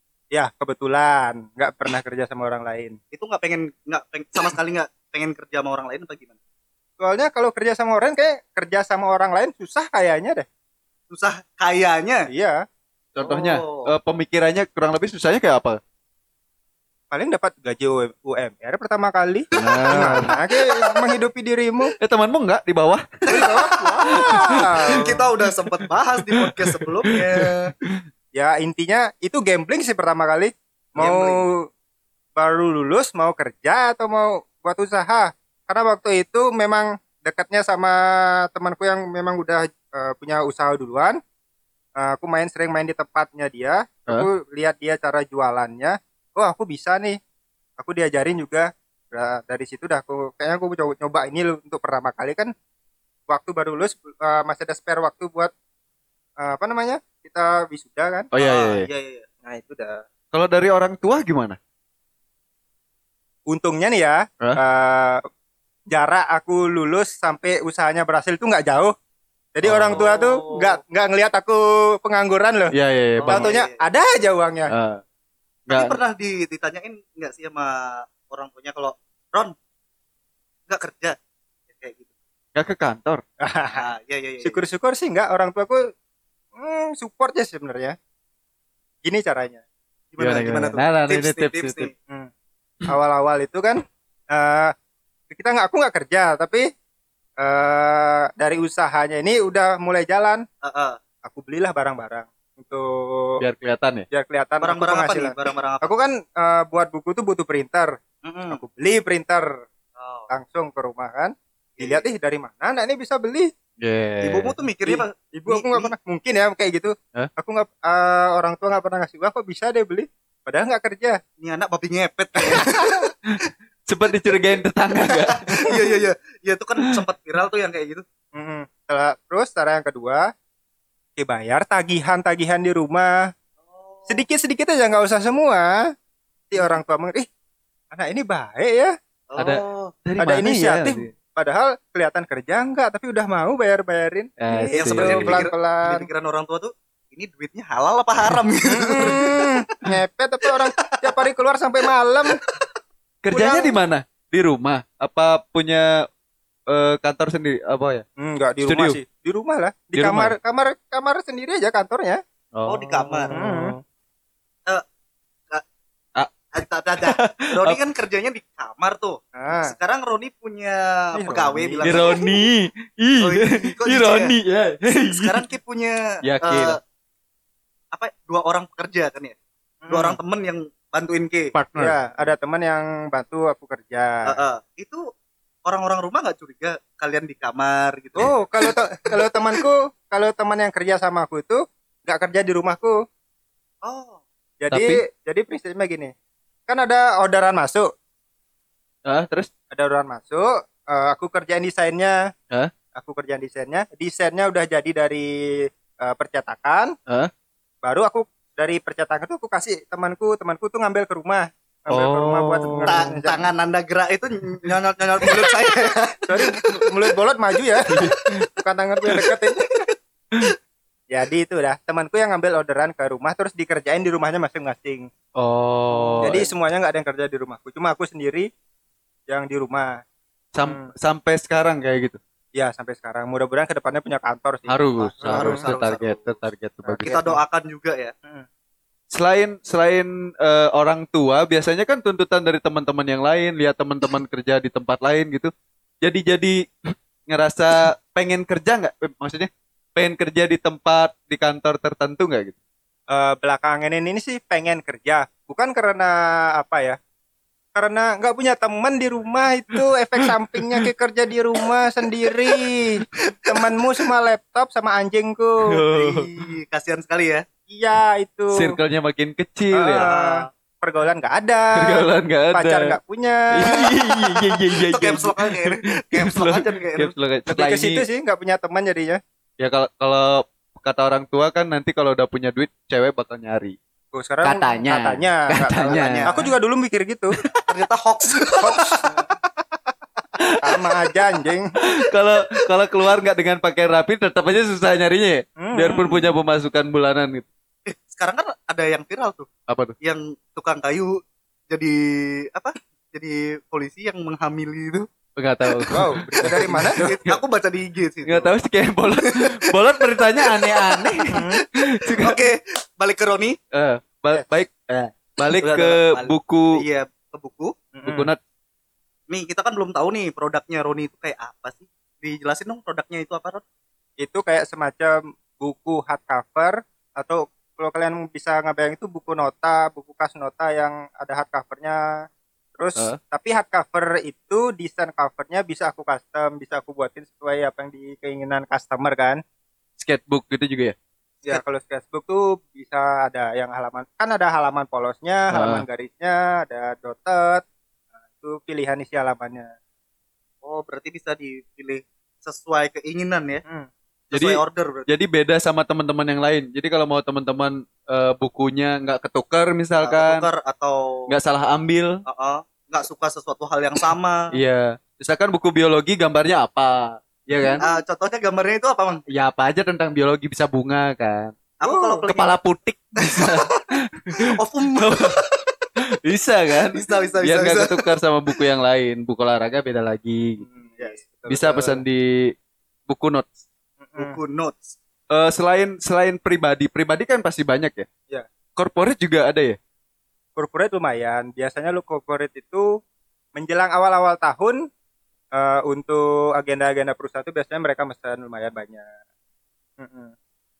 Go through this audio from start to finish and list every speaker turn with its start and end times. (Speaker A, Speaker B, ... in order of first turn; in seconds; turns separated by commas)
Speaker A: 0.3-3.0, Speaker B: 3.1-6.4, Speaker A: 7.0-10.5, Speaker B: 11.1-12.3, Speaker A: 12.3-12.6, Speaker C: 13.2-15.8, Speaker B: 13.2-13.9, Speaker A: 17.1-21.9, Speaker C: 19.6-20.3, Speaker C: 22.0-23.1, Speaker B: 23.3-27.7, Speaker A: 23.3-25.2, Speaker C: 24.1-28.0, Speaker A: 28.4-31.7, Speaker B: 31.0-31.4, Speaker A: 32.4-41.2, Speaker A: 42.0-47.2, Speaker A: 47.8-52.5, Speaker A: 53.3-55.5, Speaker A: 56.4-58.3, Speaker C: 58.3-58.9, Speaker B: 58.4-59.3, Speaker A: 59.5-60.0, Speaker C: 60.3-61.6, Speaker A: 63.5-65.2, Speaker A: 65.9-68.9, Speaker A: 69.5-72.7, Speaker C: 69.6-70.1, Speaker B: 70.0-70.8, Speaker C: 72.7-73.5, Speaker B: 73.2-73.8, Speaker A: 73.3-74.7, Speaker C: 74.7-75.0, Speaker C: 75.7-76.0, Speaker B: 75.7-79.5, Speaker B: 80.7-81.2, Speaker B: 81.7-82.1, Speaker C: 82.5-83.2, Speaker A: 83.4-83.8, Speaker B: 83.8-84.6, Speaker A: 84.4-85.9, Speaker A: 86.6-88.0, Speaker A: 89.0-89.6, Speaker B: 90.1-91.9, Speaker C: 90.2-91.9, Speaker A: 92.9-94.7, Speaker A: 95.3-96.7, Speaker A: 97.4-100.4, Speaker B: 100.6-101.0, Speaker A: 101.2-103.4, Speaker C: 103.4-104.1, Speaker A: 104.1-108.0, Speaker B: 104.6-105.9, Speaker B: 108.2-108.6, Speaker A: 108.5-109.5, Speaker B: 110.0-110.3, Speaker A: 110.3-113.5, Speaker B: 111.8-112.0, Speaker C: 113.8-114.6, Speaker B: 114.2-115.9, Speaker A: 114.8-121.2, Speaker B: 121.4-123.2, Speaker A: 122.5-123.0, Speaker C: 123.9-125.8, Speaker B: 125.3-128.1, Speaker A: 128.3-130.3, Speaker A: 131.2-133.2, Speaker B: 133.6-134.2, Speaker A: 134.1-135.8, Speaker A: 136.5-137.3, Speaker A: 137.9-138.9, Speaker B: 139.3-139.9, Speaker C: 139.4-141.1, Speaker A: 140.2-146.1, Speaker C: 144.4-145.4, Speaker B: 144.7-149.9, Speaker A: 148.7-152.4, Speaker B: 150.4-151.2, Speaker B: 152.3-152.7, Speaker C: 153.2-156.1, Speaker A: 153.3-153.8, Speaker C: 156.7-158.1, Speaker A: 158.2-162.2, Speaker C: 158.6-159.0, Speaker C: 159.9-160.3, Speaker C: 162.6-163.8, Speaker B: 162.7-163.3, Speaker A: 163.3-163.8, Speaker B: 166.5-172.3, Speaker C: 167.0-167.8, Speaker A: 169.4-169.7, Speaker A: 171.1-172.1, Speaker C: 171.8-175.5, Speaker B: 173.2-174.3, Speaker B: 174.9-176.8, Speaker C: 176.2-176.8, Speaker B: 177.9-179.4, Speaker A: 179.8-180.2, Speaker B: 179.9-181.5, Speaker C: 181.6-181.9, Speaker A: 181.8-184.3, Speaker B: 184.3-185.0, Speaker B: 185.7-188.8, Speaker A: 188.2-193.0, Speaker B: 193.8-194.2, Speaker A: 194.6-196.1, Speaker C: 194.7-195.0, Speaker A: 196.7-197.9, Speaker C: 199.1-199.5, Speaker A: 199.7-202.2, Speaker A: 202.9-205.3, Speaker A: 206.0-206.9, Speaker A: 207.8-213.5, Speaker C: 211.9-213.1, Speaker B: 212.9-217.1, Speaker A: 216.3-219.8, Speaker C: 217.9-218.5, Speaker B: 218.0-218.4, Speaker B: 219.1-219.8, Speaker A: 221.1-225.1, Speaker C: 225.4-226.4, Speaker B: 225.9-226.5, Speaker A: 226.2-228.5, Speaker A: 229.3-229.9, Speaker C: 230.5-232.2, Speaker A: 230.6-230.9, Speaker A: 232.6-235.7, Speaker C: 234.7-237.4, Speaker B: 235.2-236.4, Speaker A: 236.8-237.3, Speaker B: 237.0-238.1, Speaker C: 239.1-245.5, Speaker C: 246.0-252.6, Speaker A: 253.1-257.0, Speaker A: 257.8-265.8, Speaker C: 260.2-260.9, Speaker B: 263.2-263.6, Speaker C: 265.7-266.3, Speaker B: 265.9-267.4, Speaker A: 267.7-268.8, Speaker C: 268.5-270.1, Speaker A: 269.7-273.9, Speaker B: 269.9-270.5, Speaker C: 271.8-273.0, Speaker C: 273.5-278.0, Speaker B: 274.7-277.1, Speaker A: 277.5-279.2, Speaker C: 279.6-283.8, Speaker A: 284.1-287.4, Speaker C: 284.4-286.4, Speaker B: 285.9-286.4, Speaker C: 287.4-287.8, Speaker B: 287.7-289.6, Speaker A: 288.6-289.3, Speaker C: 290.4-290.8, Speaker A: 290.6-291.7, Speaker C: 291.8-297.5, Speaker A: 295.6-296.0, Speaker B: 295.8-296.2, Speaker B: 297.9-299.5, Speaker C: 299.7-299.9, Speaker B: 300.0-305.1, Speaker C: 305.4-307.4, Speaker A: 305.9-307.1, Speaker B: 307.0-308.5, Speaker C: 308.2-312.4, Speaker B: 309.2-313.6, Speaker A: 311.3-311.6, Speaker C: 313.7-316.8, Speaker B: 315.4-317.8, Speaker A: 317.9-318.3, Speaker C: 318.1-318.4, Speaker B: 319.3-323.6, Speaker A: 324.2-339.4, Speaker C: 340.0-340.9, Speaker A: 341.4-347.6, Speaker C: 345.5-345.8, Speaker A: 348.4-349.7, Speaker B: 350.6-353.6, Speaker B: 354.3-355.1, Speaker C: 354.3-360.5, Speaker B: 360.0-361.2, Speaker C: 361.3-362.2, Speaker B: 362.3-364.5, Speaker C: 364.5-367.8, Speaker A: 367.6-368.0, Speaker B: 367.8-369.2, Speaker C: 369.3-371.6, Speaker B: 371.8-372.5, Speaker A: 371.8-372.3, Speaker C: 372.3-375.4, Speaker B: 373.2-375.8, Speaker C: 376.2-380.6, Speaker B: 376.9-378.1, Speaker A: 380.6-382.0, Speaker C: 381.5-382.5, Speaker C: 383.1-383.6, Speaker A: 384.0-384.4, Speaker B: 384.2-384.9, Speaker C: 385.3-388.1, Speaker C: 388.8-389.8, Speaker A: 390.6-392.9, Speaker A: 393.6-394.8, Speaker A: 395.6-399.1, Speaker A: 400.0-400.3